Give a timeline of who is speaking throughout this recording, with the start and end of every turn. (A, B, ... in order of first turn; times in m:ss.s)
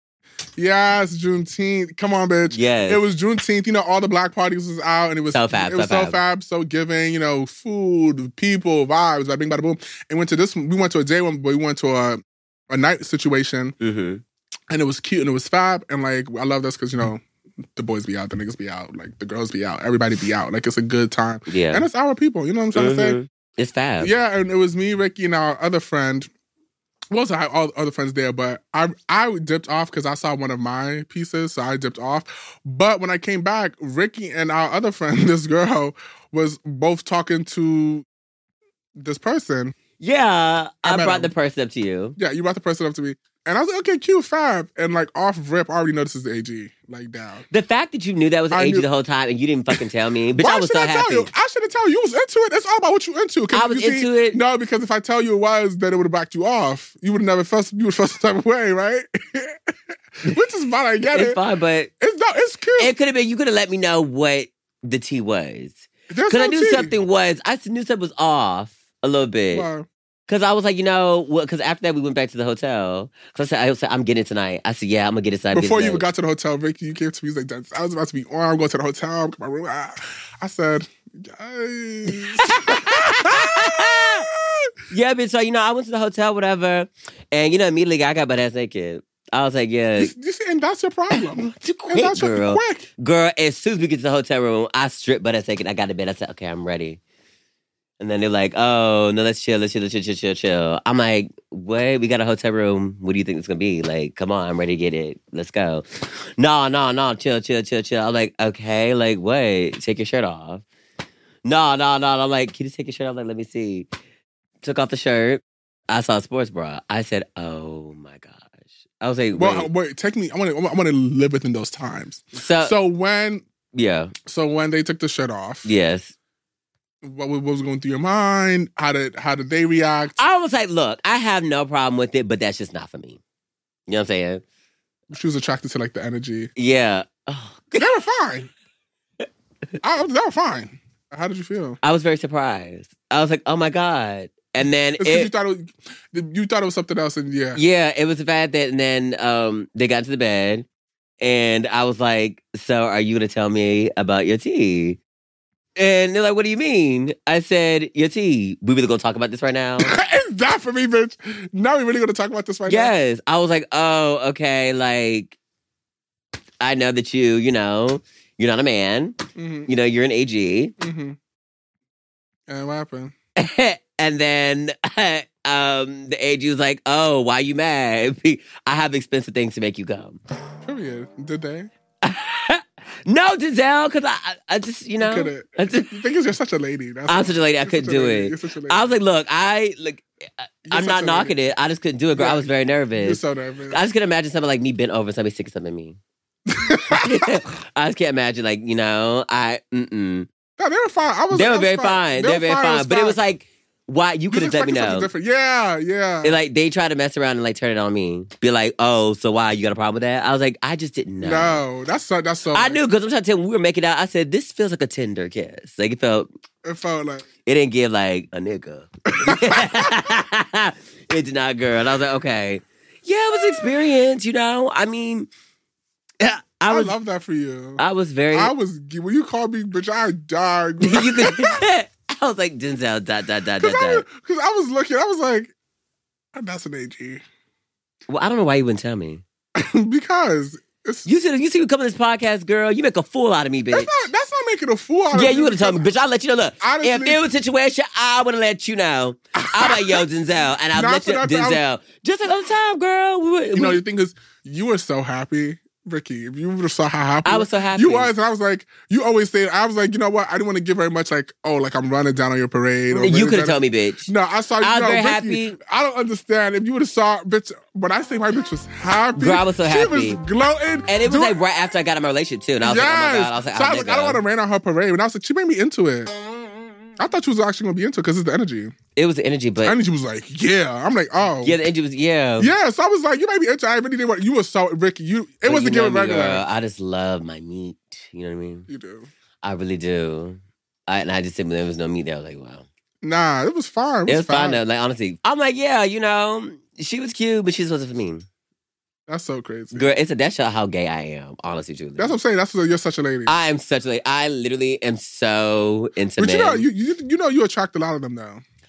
0:00.6-0:13.8 A
0:02.5-0:03.0 B
0:05.3-0:06.2 B
0:13.8-0:14.2 B
0:14.7-0:17.2 A
0:17.8-0:23.2 A
0:21.5-0:21.8 B
0:22.7-0:24.1 B
0:24.0-0:26.3 A
0:27.1-0:38.0 A
0:39.0-0:39.7 A
0:40.0-0:42.2 B
0:40.8-0:41.3 A
0:42.2-0:47.4 A
0:47.5-0:51.3 B
0:48.5-0:48.9 A
0:50.4-1:01.4 A
0:53.5-0:54.4 B
1:01.0-1:01.9 B
1:02.0-1:02.9 A
1:02.8-1:09.7 B
1:06.1-1:06.9 A
1:09.5-1:09.8 A
1:10.3-1:16.0 B
1:15.5-1:24.7 A
1:22.1-1:24.3 B
1:24.9-1:30.1 B
1:30.0-1:32.9 A
1:31.1-1:37.0 B
1:38.0-1:50.6 B
1:51.4-1:53.9 B
1:54.6-1:59.7 B
1:59.4-2:03.5 A
2:02.3-2:02.7 B
2:03.7-2:04.1 B
2:04.3-2:05.7 A
2:05.6-2:06.1 B
2:07.0-2:10.2 A
2:10.2-2:13.2 B
2:13.9-2:14.4 B
2:15.1-2:16.5 A
2:16.6-2:18.0 B
2:17.8-2:18.5 A
2:19.8-2:21.8 A
2:21.8-2:25.3 B
2:25.0-2:27.6 A
2:27.5-2:30.6 B
2:31.2-2:35.0 B
2:35.8-2:39.9 B
2:39.8-2:42.9 A
2:42.7-2:45.4 B
2:46.6-2:50.7 B
2:49.4-2:49.7 A
2:50.8-2:51.2 A
2:52.5-2:53.1 A
2:53.4-3:00.2 B
3:00.6-3:01.7 A
3:02.0-3:06.0 B
3:05.0-3:08.8 A
3:07.1-3:16.0 B
3:10.6-3:11.3 A
3:12.1-3:13.8 A
3:16.5-3:17.4 A
3:16.9-3:20.3 B
3:20.6-3:23.2 A
3:21.3-3:25.1 B
3:24.3-3:26.4 A
3:26.2-3:31.6 B
3:31.2-3:32.8 A
3:32.5-3:36.3 B
3:36.6-3:37.2 A
3:37.4-3:45.3 B
3:39.1-3:40.2 A
3:43.3-3:43.8 A
3:46.2-3:46.9 B
3:46.7-3:47.8 A
3:47.8-3:48.5 B
3:48.3-3:51.6 A
3:50.8-3:54.0 B
3:53.6-3:55.5 A
3:56.3-3:57.2 A
3:58.1-3:59.2 B
3:59.5-4:01.1 A
4:01.0-4:03.9 B
4:03.7-4:05.9 A
4:05.1-4:13.8 B
4:06.6-4:07.2 A
4:09.4-4:10.0 A
4:10.7-4:11.6 A
4:13.5-4:31.4 A
4:17.2-4:18.1 B
4:22.9-4:25.6 B
4:29.1-4:30.2 B
4:30.9-4:34.2 B
4:32.6-4:36.1 A
4:37.0-4:38.8 A
4:39.0-4:39.8 B
4:39.6-4:41.6 A
4:41.4-4:42.5 B
4:42.4-4:46.4 A
4:45.4-4:48.7 B
4:48.7-4:49.1 A
4:49.4-4:52.7 B
4:53.0-4:54.6 A
4:54.1-4:58.2 B
4:59.1-4:59.9 A
4:59.7-5:02.2 B
5:02.0-5:03.3 A
5:03.2-5:06.6 B
5:06.2-5:08.4 A